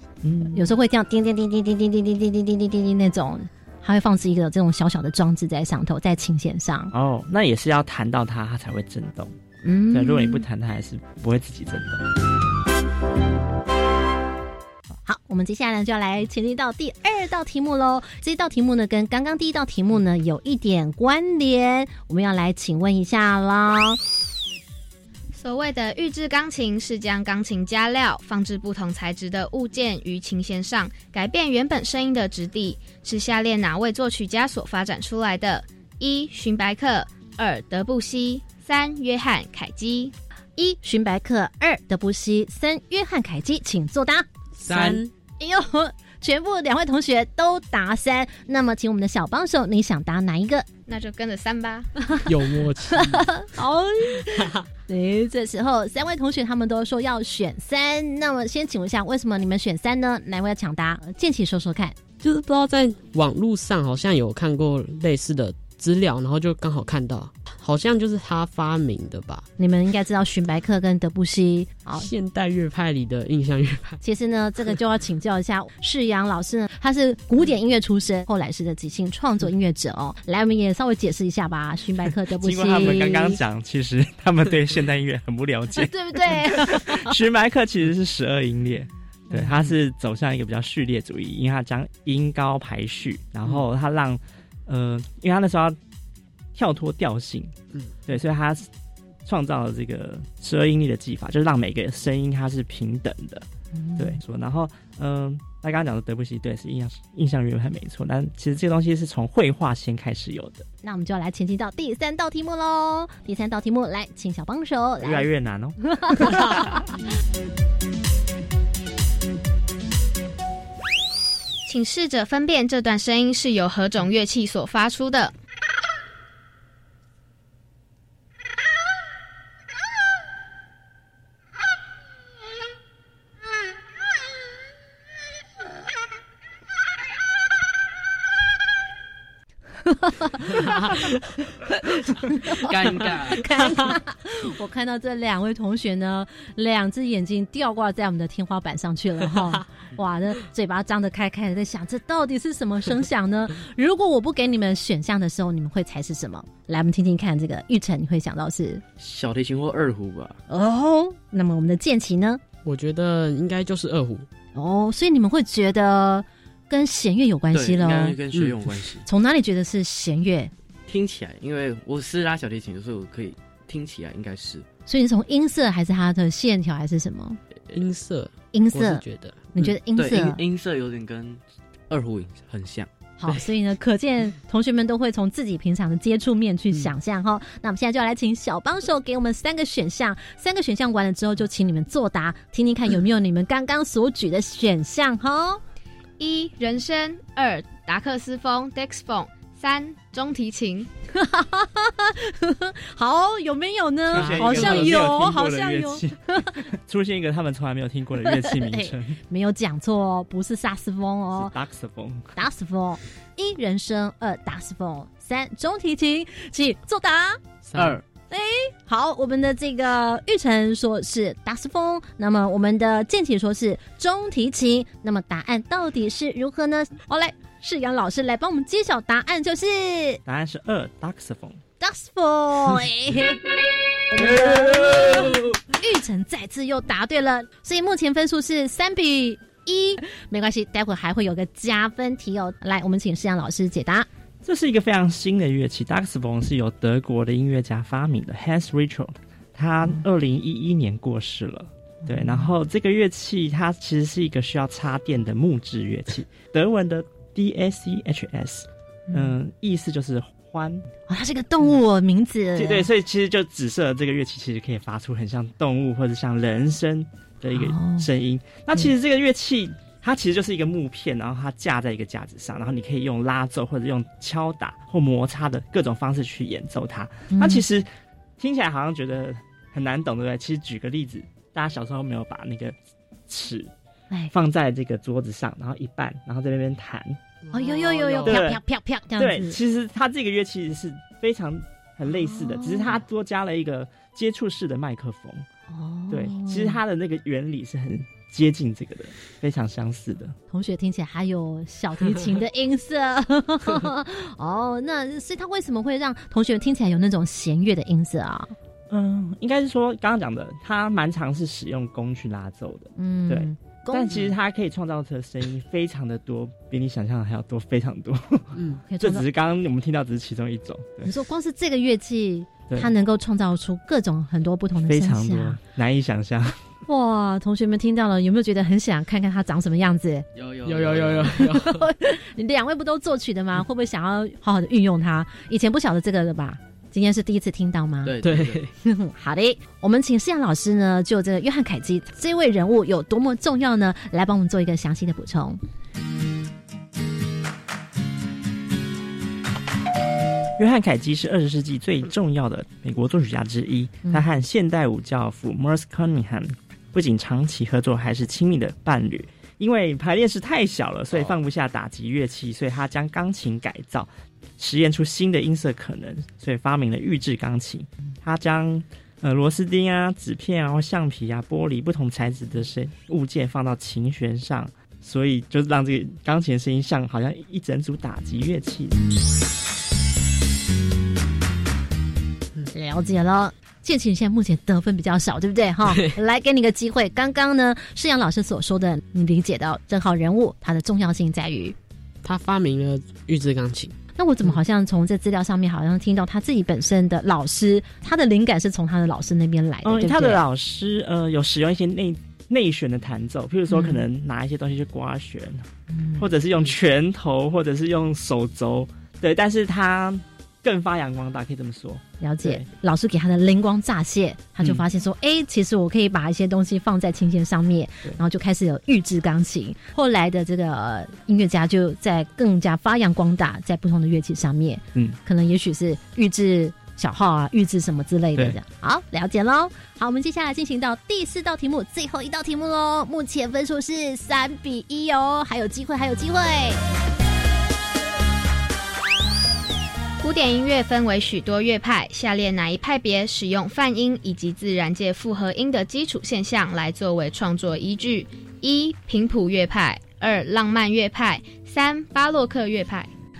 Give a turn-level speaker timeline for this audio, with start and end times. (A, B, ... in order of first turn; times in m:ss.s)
0:00.2-0:00.7 A
0:00.4-0:06.9 B
0:06.9-0:09.3 A
0:09.6-0:10.4 B
0:09.9-0:12.0 A
0:15.0-0:24.0 B
0:25.3-0:40.1 C
0:40.6-0:44.8 B
0:44.6-0:45.1 D
0:45.4-0:50.6 B
0:50.9-0:51.9 C
0:52.2-0:53.2 D
0:52.9-1:02.0 B
1:02.2-1:09.4 D
1:09.6-1:12.1 B
1:12.0-1:14.0 D
1:14.0-1:23.4 B
1:22.4-1:35.8 A
1:25.8-1:27.1 B
1:36.5-1:37.5 A
1:38.1-1:38.7 A
1:39.2-1:43.4 A
1:43.7-1:44.2 B
1:44.0-1:50.7 A
1:50.8-1:55.3 B
1:55.0-1:56.8 A
1:55.8-1:56.8 B
2:01.6-2:05.3 C
2:19.8-2:21.0 B
2:22.1-2:38.8 B
2:22.5-2:23.4 E
2:39.0-2:40.4 E
2:40.5-2:42.4 B
2:42.6-2:44.2 D
2:44.5-2:48.2 B
2:47.5-2:49.0 E
2:48.3-2:48.6 D
2:49.0-2:50.5 B
2:50.9-2:54.6 E
2:54.9-2:57.4 B
2:57.7-2:59.5 D
2:58.5-3:00.4 B
2:59.9-3:02.9 E
3:03.2-3:15.6 B
3:16.2-3:20.9 C
3:21.1-3:26.6 B
3:24.1-3:29.2 A
3:24.2-3:24.7 D
3:28.2-3:31.5 B
3:31.3-3:32.3 A
3:32.4-3:37.4 B
3:37.6-3:38.0 D
3:37.7-3:38.0 E
3:38.3-3:50.2 B
3:50.2-3:51.6 A
3:51.8-3:53.4 B
3:54.1-4:04.1 B
4:04.4-4:20.9 A
4:12.1-4:12.5 B
4:19.1-4:19.4 B
4:21.1-4:22.9 B
4:22.6-4:42.8 A
4:27.5-4:28.1 B
4:37.3-4:37.6 B
4:43.3-4:43.7 A
4:44.3-4:47.2 A
4:47.5-4:48.4 D
4:47.5-4:49.6 B
4:48.2-4:48.6 A
4:49.1-4:55.4 A
4:52.1-4:53.0 B
4:55.7-4:56.8 B
4:56.1-5:00.4 A
5:00.5-5:08.5 B
5:08.9-5:21.1 A
5:13.0-5:14.3 B
5:18.6-5:18.8 D
5:18.9-5:19.2 B
5:21.0-5:25.6 B
5:24.8-5:26.6 A
5:26.9-5:30.2 B
5:30.3-5:31.5 E
5:30.6-5:31.8 D
5:31.5-5:38.1 B
5:38.0-5:38.6 E
5:38.2-5:38.7 D
5:38.8-5:45.6 B
5:50.6-6:19.0 A
6:22.7-6:31.8 B
6:32.2-6:33.9 D
6:34.2-6:40.4 B
6:39.8-6:52.7 A
6:43.7-6:44.0 B
6:45.9-6:46.3 B
6:52.2-7:16.8 B
7:20.2-7:33.1 C